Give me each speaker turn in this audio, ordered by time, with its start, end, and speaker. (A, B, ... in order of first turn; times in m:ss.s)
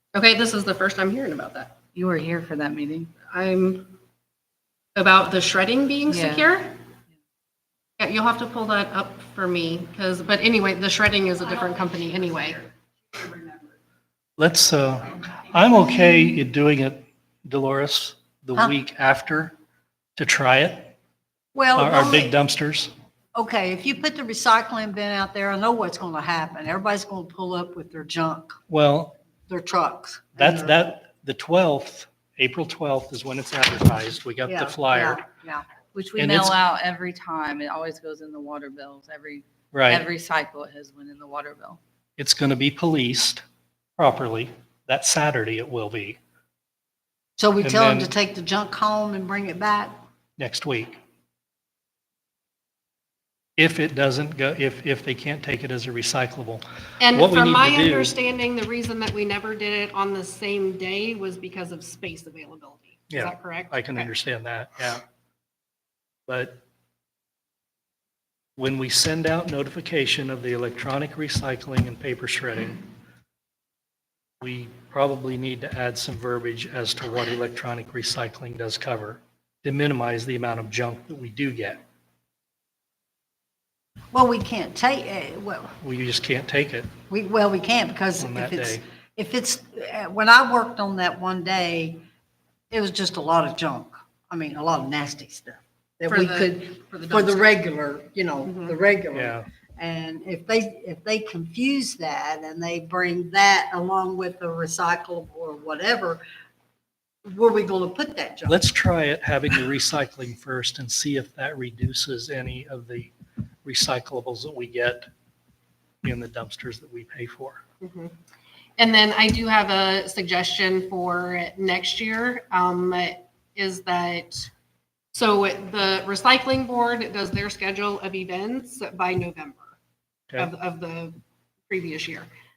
0:00.1-0:01.7 A
0:01.9-0:03.1 B
0:03.3-0:03.9 A
0:04.9-0:06.7 A
0:06.1-0:06.5 B
0:08.0-0:12.6 A
0:14.4-0:19.6 C
0:20.2-0:20.9 C
0:21.5-0:22.3 D
0:21.7-0:22.9 C
0:23.3-0:28.6 D
0:28.7-0:29.2 C
0:29.5-0:30.8 D
0:30.4-0:35.2 C
0:34.5-0:35.6 D
0:35.9-0:41.8 B
0:36.2-0:36.6 C
0:39.7-0:40.1 C
0:42.2-0:43.4 C
0:44.0-0:46.2 C
0:47.4-0:50.0 D
0:47.6-0:48.1 C
0:50.4-0:51.0 C
0:53.6-0:58.1 C
0:57.0-1:04.1 A
1:03.1-1:05.0 C
1:06.3-1:06.6 C
1:08.6-1:12.8 C
1:14.4-1:21.8 C
1:24.1-1:25.7 D
1:25.8-1:26.9 C
1:27.1-1:32.0 D
1:28.2-1:28.8 C
1:32.7-1:46.2 D
1:36.1-1:37.5 A
1:38.4-1:38.7 A
1:39.1-1:39.4 C
1:47.2-1:48.6 D
1:48.5-1:53.1 C
1:53.6-1:55.1 C
1:56.0-1:57.6 C
1:57.8-1:58.1 A
1:58.8-2:04.5 A
2:05.1-2:09.8 A
2:10.4-2:11.2 A
2:11.7-2:12.3 A